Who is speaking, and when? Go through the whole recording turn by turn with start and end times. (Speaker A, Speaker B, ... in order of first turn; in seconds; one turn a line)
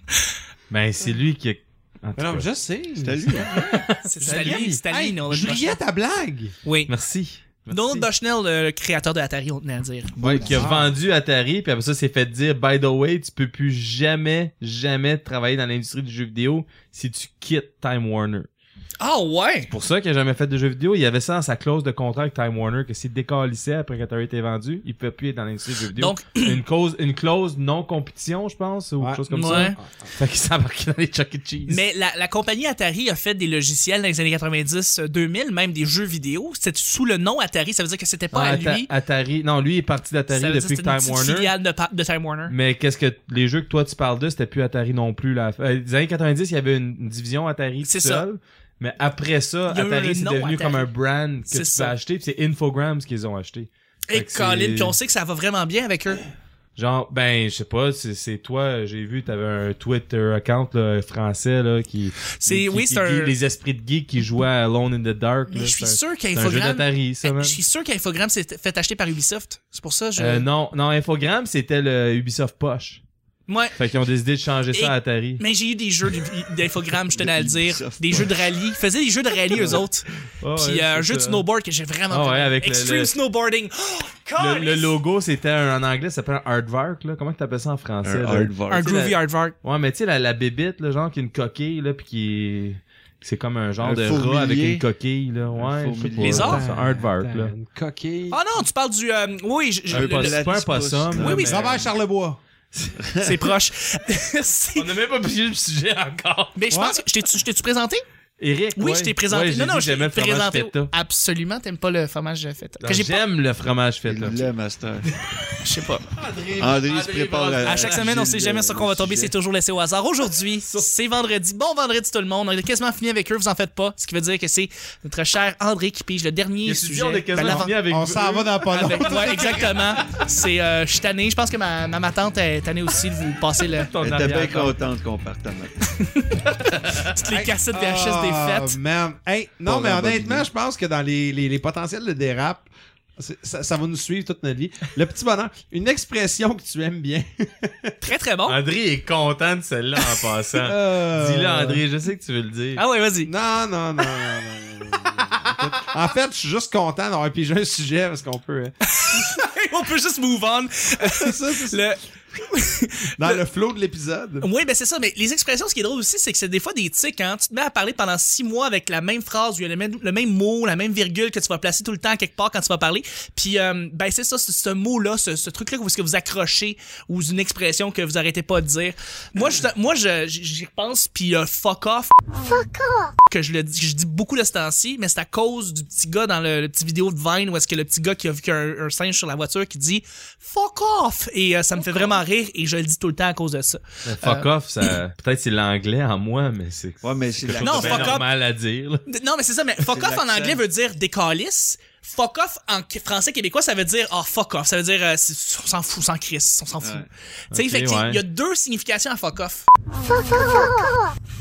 Speaker A: 0.7-2.5
Speaker B: 2.2-6.5
Speaker C: 3.0-3.6
Speaker A: 3.3-4.8
Speaker D: 4.0-5.8
Speaker D: 6.6-6.9
Speaker A: 6.9-8.1
Speaker D: 7.7-10.7
Speaker A: 10.2-18.5
Speaker C: 10.2-10.5
Speaker B: 10.2-10.9
Speaker D: 19.0-19.7
Speaker A: 19.7-31.8
Speaker D: 25.9-26.6
Speaker B: 29.0-30.1
Speaker D: 29.3-29.8
Speaker D: 31.7-38.9
Speaker A: 38.3-41.5
Speaker D: 40.3-42.5
Speaker A: 42.5-55.0
Speaker D: 47.8-48.2
Speaker D: 49.7-50.9
Speaker D: 51.5-51.9
Speaker D: 54.1-56.2
Speaker A: 56.8-67.6
Speaker D: 62.4-63.4
Speaker D: 65.5-70.5
Speaker A: 70.2-73.0
Speaker D: 73.5-73.8
Speaker A: 73.8-75.4
Speaker D: 74.7-85.0
Speaker C: 77.1-78.4
Speaker C: 79.6-79.8
Speaker A: 79.6-79.8
Speaker A: 80.4-81.4
Speaker A: 82.1-83.1
Speaker A: 84.4-97.5
Speaker C: 88.0-88.9
Speaker D: 88.7-89.5
Speaker C: 93.8-94.8
Speaker C: 95.5-96.6
Speaker D: 96.2-96.6
Speaker B: 96.3-98.4
Speaker D: 98.3-100.4
Speaker A: 99.9-101.8
Speaker C: 99.9-101.8
Speaker D: 101.1-101.8
Speaker B: 101.4-102.4
Speaker C: 102.8-103.5
Speaker D: 103.2-104.9
Speaker A: 104.8-106.6
Speaker D: 106.5-108.0
Speaker B: 106.7-107.0
Speaker A: 108.4-110.9
Speaker D: 108.8-113.2
Speaker A: 112.8-114.5
Speaker C: 114.0-115.1
Speaker D: 115.6-116.1
Speaker A: 116.1-118.1
Speaker C: 116.6-119.3
Speaker D: 117.6-127.7
Speaker A: 126.6-128.5
Speaker B: 127.3-130.0
Speaker D: 128.7-133.9
Speaker A: 133.8-134.8
Speaker C: 134.0-135.8
Speaker D: 135.9-138.8
Speaker B: 137.3-142.7
Speaker C: 139.7-140.5
Speaker B: 143.2-148.0
Speaker D: 148.0-148.6
Speaker A: 148.5-152.8
Speaker B: 150.6-151.8
Speaker D: 152.8-153.3
Speaker B: 153.2-159.3
Speaker D: 158.9-163.4
Speaker B: 161.0-161.8
Speaker B: 163.2-164.5
Speaker D: 164.4-182.6
Speaker D: 183.2-195.0
Speaker A: 194.1-199.0
Speaker C: 197.0-198.2
Speaker D: 197.6-198.3
Speaker D: 199.1-210.8
Speaker C: 199.8-200.6
Speaker C: 206.8-207.1
Speaker A: 207.5-208.2